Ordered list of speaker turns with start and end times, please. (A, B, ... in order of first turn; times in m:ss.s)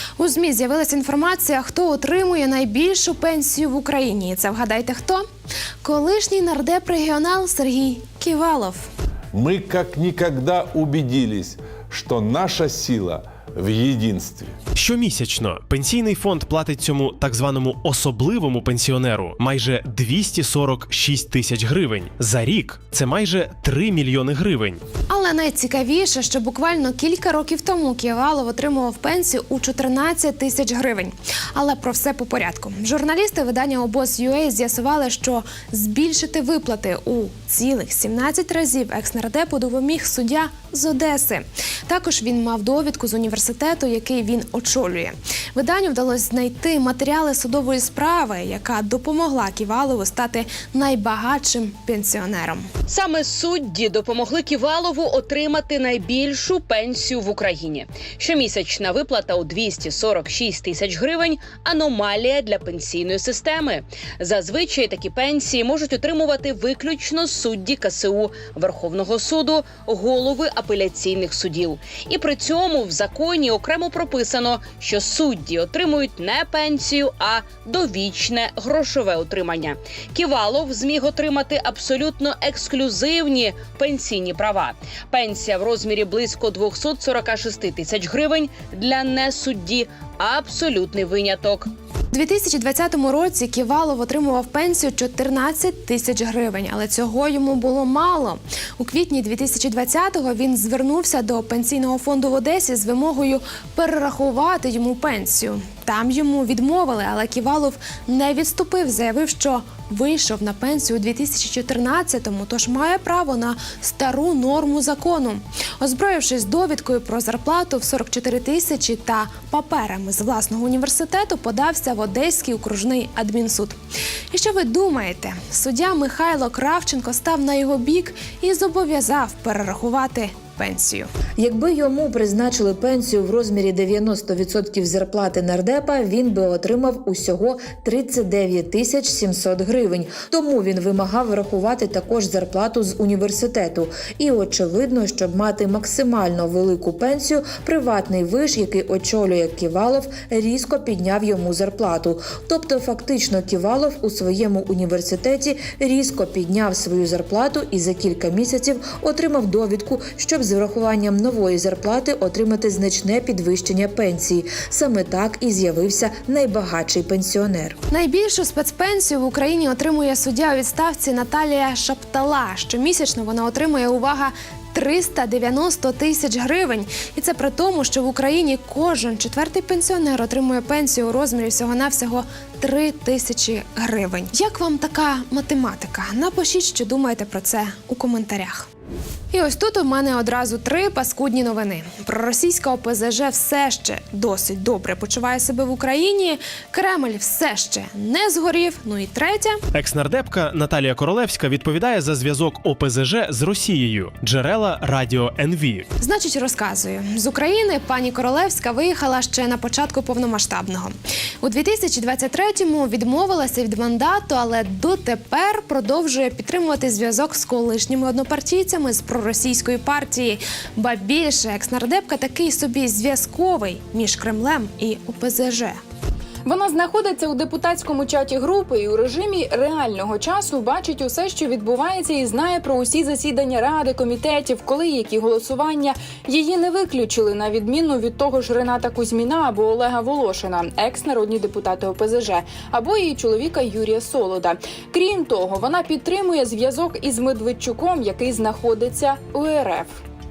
0:00.2-0:05.2 A
0:05.8-0:08.9 A
0:09.3-0:14.5 B
0:14.7-0:24.8 C
0:25.1-0:52.6 A
0:52.9-1:31.7 D
1:32.1-2:03.7 A
2:04.3-2:11.1 A
2:11.4-2:47.8 E
2:47.9-3:08.7 A
3:09.3-3:19.6 A
3:19.7-3:25.8 C
3:26.0-3:45.8 A
3:46.4-4:10.0 F